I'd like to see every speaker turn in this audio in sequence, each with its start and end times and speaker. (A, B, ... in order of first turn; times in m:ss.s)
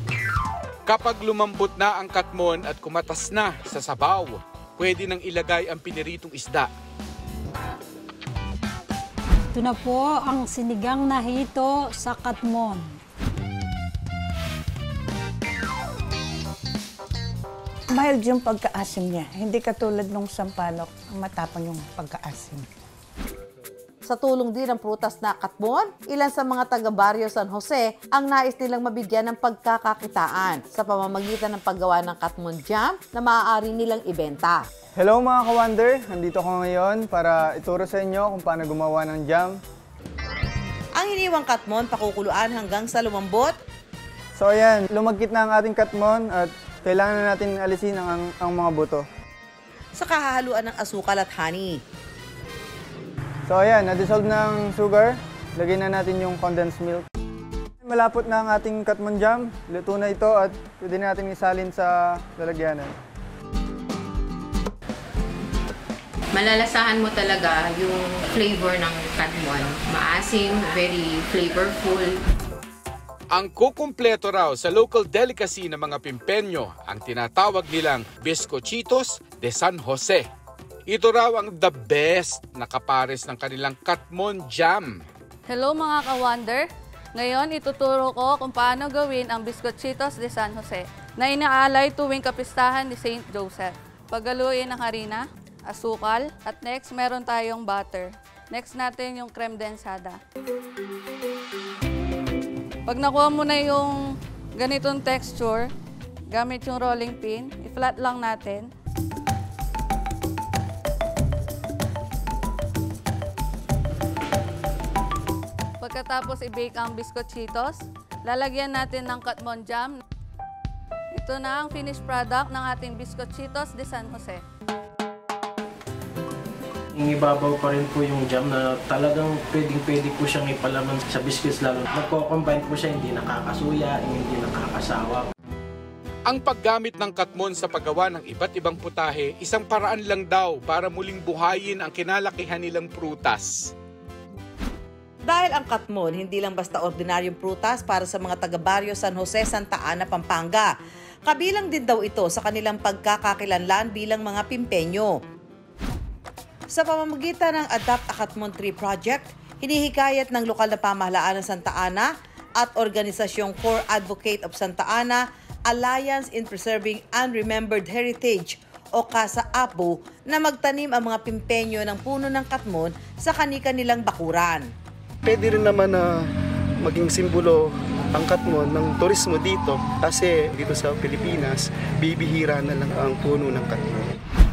0:00.8-0:06.7 A
0:09.5-0:13.0 B
0:17.9-0:22.7 C
0:24.1-0:34.6 D
0:35.0-0:39.6 E
0:41.0-0:43.5 D
0:44.4-0:49.0 E
0:50.0-0:51.8 D
0:53.5-0:57.0 E
0:57.8-1:02.9 E
1:06.3-1:12.2 F
1:13.3-1:20.2 A
1:20.9-1:25.0 A
1:25.5-1:40.2 G
1:42.9-1:44.0 G
1:44.6-1:45.7 G
1:46.3-1:48.7 G
1:55.8-2:00.0 G
2:01.1-2:04.4 G
2:06.9-2:15.3 H
2:16.3-2:23.7 A
2:25.3-2:30.7 D
2:31.2-2:35.1 D
2:36.7-2:42.1 D
2:42.6-2:54.7 D
2:55.2-2:56.2 I
2:56.8-3:04.1 I